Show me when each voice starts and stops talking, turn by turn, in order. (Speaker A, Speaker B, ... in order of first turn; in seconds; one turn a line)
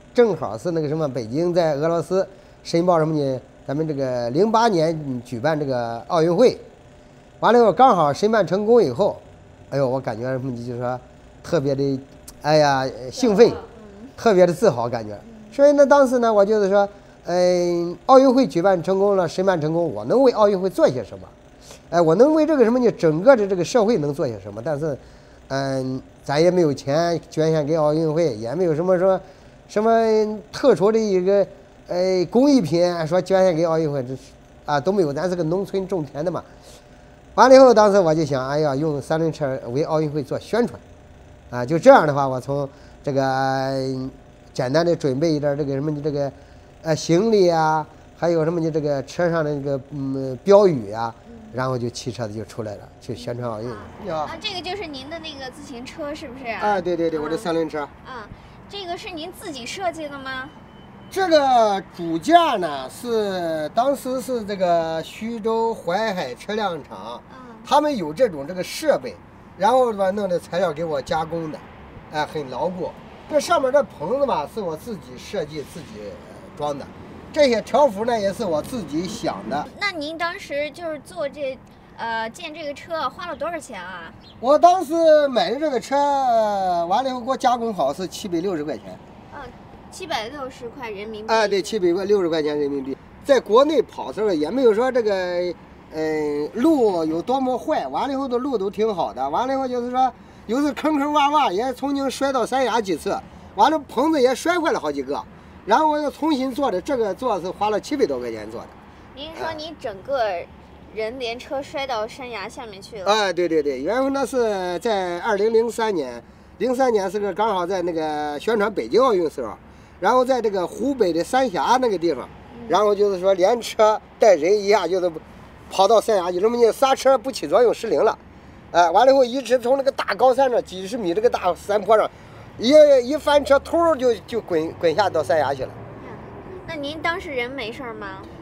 Speaker A: 0.1-6.6
Speaker A: 7.4-13.6
Speaker B: 13.2-14.1
Speaker A: 14.2-21.3
Speaker B: 15.3-15.5
Speaker A: 21.9-36.5
Speaker A: 37.4-40.8
Speaker A: 41.5-54.3
Speaker B: 41.7-42.0
Speaker B: 53.2-57.5
Speaker A: 56.6-57.9
Speaker B: 58.0-60.6
Speaker A: 61.1-79.7
Speaker B: 67.3-67.7
Speaker B: 79.7-84.2
Speaker A: 84.4-89.0
Speaker B: 89.3-91.8
Speaker A: 91.3-108.8
Speaker B: 109.1-113.1
Speaker A: 113.0-128.2
Speaker B: 122.5-122.8
Speaker A: 128.7-135.8
Speaker B: 136.0-138.3